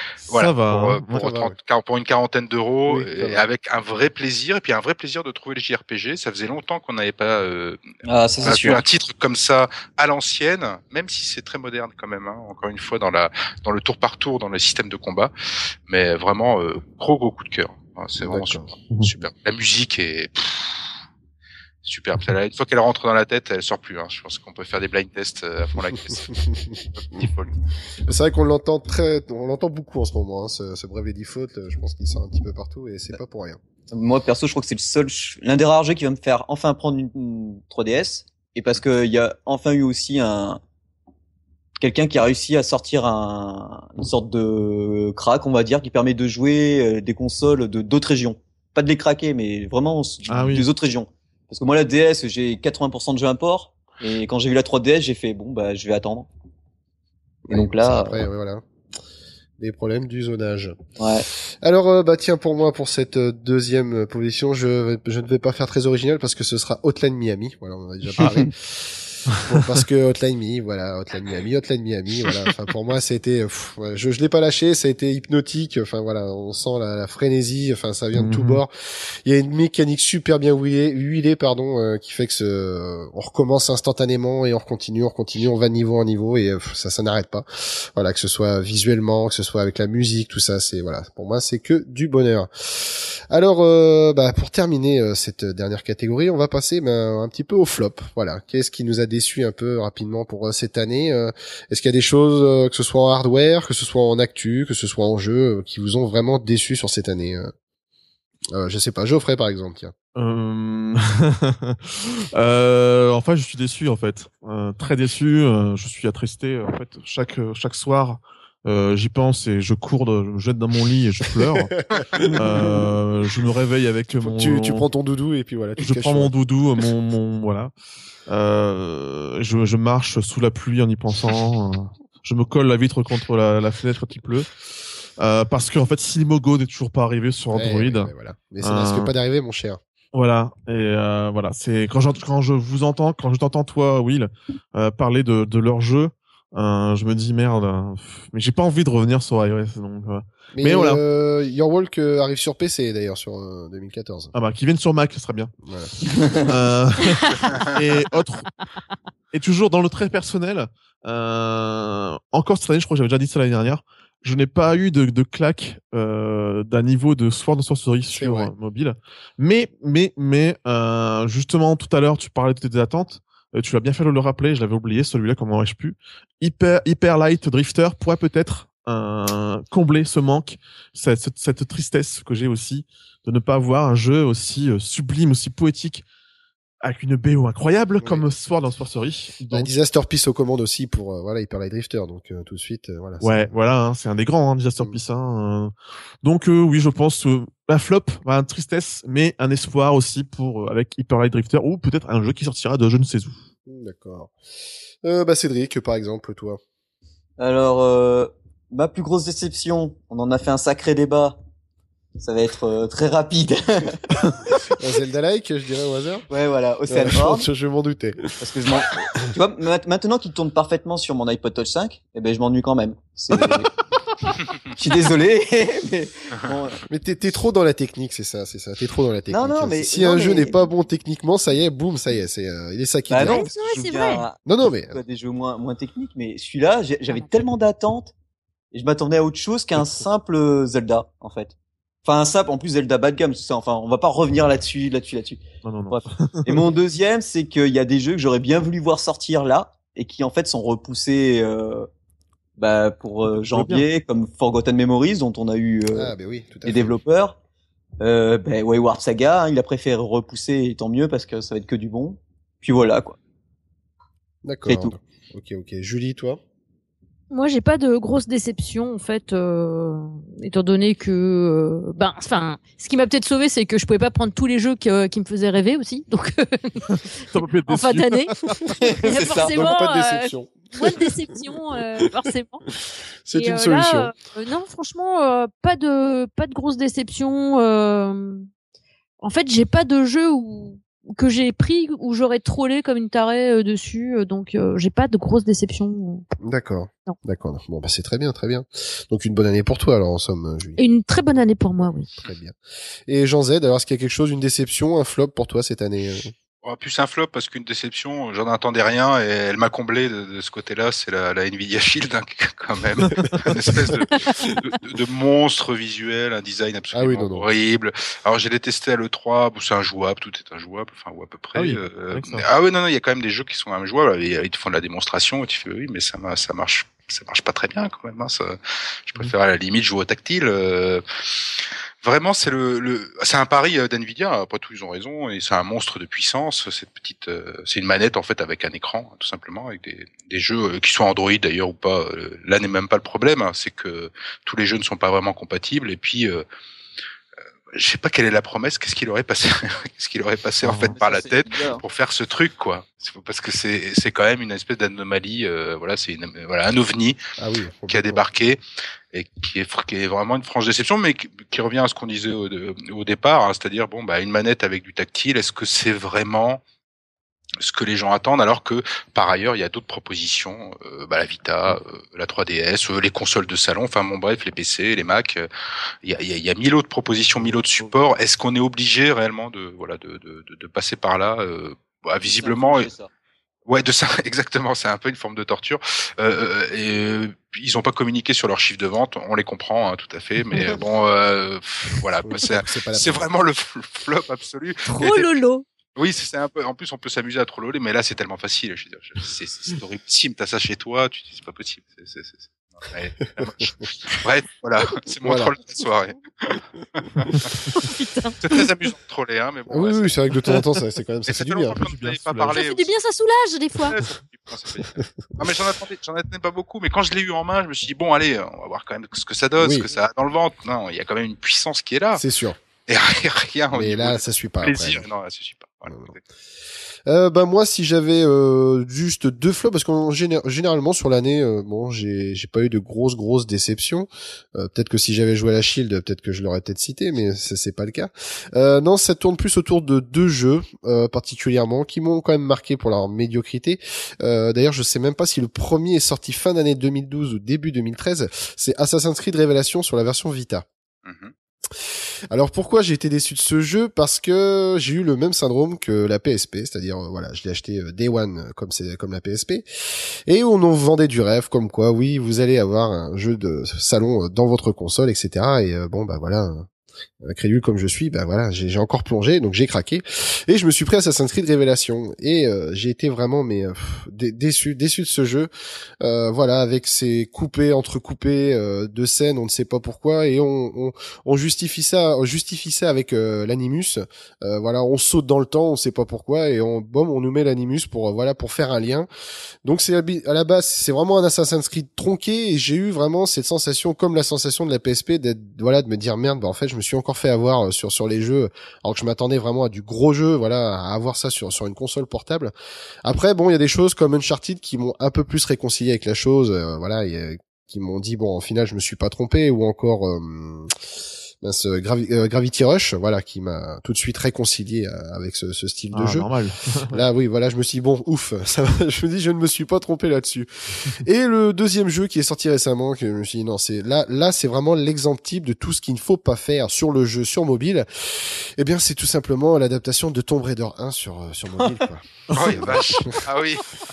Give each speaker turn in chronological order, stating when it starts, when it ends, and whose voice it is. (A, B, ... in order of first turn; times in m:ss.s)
0:00.3-0:07.8 A
0:00.3-0:01.2 B
0:01.2-0:01.5 C
0:02.9-0:03.4 C
0:08.0-0:08.8 D
0:08.4-0:15.3 A
0:15.9-0:20.9 A
0:18.2-0:18.7 C
0:21.8-0:27.6 A
0:28.0-0:33.6 C
0:33.9-0:40.6 D
0:41.8-0:56.3 D
0:50.3-0:50.7 B
0:57.5-0:58.6 C
0:57.5-0:58.2 D
0:59.6-1:00.8 C
1:01.0-1:01.3 D
1:01.6-1:47.5 C
1:08.2-1:08.5 D
1:18.1-1:18.6 B
1:48.5-1:49.9 C
1:50.1-2:01.7 B
2:01.5-2:02.9 C
2:02.4-2:04.8 B
2:04.2-2:06.3 C
2:05.8-2:07.7 B
2:08.3-2:14.6 B
2:15.2-2:18.1 B
2:17.5-2:19.8 C
2:18.6-2:19.1 B
2:20.1-2:31.0 B
2:30.5-2:34.3 C
2:34.3-2:35.5 B
2:35.6-2:35.9 C
2:36.3-2:38.5 B
2:37.0-2:37.7 E
2:39.3-3:06.0 B
2:48.1-2:48.5 C
3:06.8-3:09.7 B
3:08.0-3:08.2 C
3:09.5-3:13.6 C
3:13.2-3:23.4 B
3:23.7-3:24.3 C
3:25.0-3:26.6 C
3:27.4-3:31.4 D
3:32.2-3:34.3 D
3:34.7-3:36.2 C
3:36.3-3:37.5 D
3:36.9-3:38.4 C
3:38.4-3:46.8 D
3:46.9-3:53.5 C
3:49.3-3:50.6 D
3:53.1-3:58.1 D
3:53.2-3:54.2 E
3:54.4-3:55.0 C
3:58.7-4:11.9 D
3:59.8-4:00.0 B
4:05.6-4:06.6 B
4:12.6-4:16.1 D
4:13.4-4:13.8 B
4:15.9-4:17.0 C
4:16.6-4:17.4 D
4:18.0-4:23.2 D
4:24.4-4:26.4 C
4:24.7-4:24.9 D
4:27.3-4:36.9 E
4:36.9-4:38.6 B
4:37.6-4:38.3 E
4:38.8-4:39.6 D
4:38.8-4:42.6 E
4:38.9-4:41.4 C
4:43.2-4:44.1 C
4:43.3-4:48.5 E
4:49.2-4:56.2 E
4:56.4-5:00.8 C
5:00.8-5:02.1 E
5:01.8-5:02.5 C
5:03.1-5:06.3 C
5:06.6-5:46.4 A
5:13.0-5:13.4 B
5:16.9-5:17.5 C
5:21.5-5:22.4 B
5:47.7-5:57.2 A
5:50.6-5:51.0 B
5:50.9-5:51.8 D
5:57.4-5:58.2 C
5:57.9-5:58.6 A
5:59.1-6:06.6 A
6:07.6-6:15.5 A
6:16.0-6:22.9 A
6:22.2-6:23.1 D
6:23.7-6:35.4 A
6:32.2-6:33.3 C
6:34.9-6:35.6 E
6:35.9-6:47.3 A
6:43.4-6:43.9 C
6:45.2-6:45.5 C
6:47.7-6:48.7 E
6:48.4-6:50.2 A
6:49.7-6:51.8 C
6:51.3-6:52.9 A
6:51.8-6:52.6 B
6:52.5-6:54.0 E
6:53.8-7:02.2 A
6:59.6-6:59.9 C
7:02.1-7:02.6 C
7:02.9-7:06.2 A
7:03.7-7:05.0 C
7:07.0-7:30.6 C
7:31.0-7:31.3 A
7:32.3-7:46.7 C
7:47.2-7:55.5 C
7:56.0-8:09.1 C
8:09.6-8:22.5 C
8:23.0-8:30.7 C
8:31.4-8:36.3 C
8:35.9-8:37.0 B
8:36.9-8:53.2 C
8:52.3-8:53.0 B
8:52.3-8:53.6 A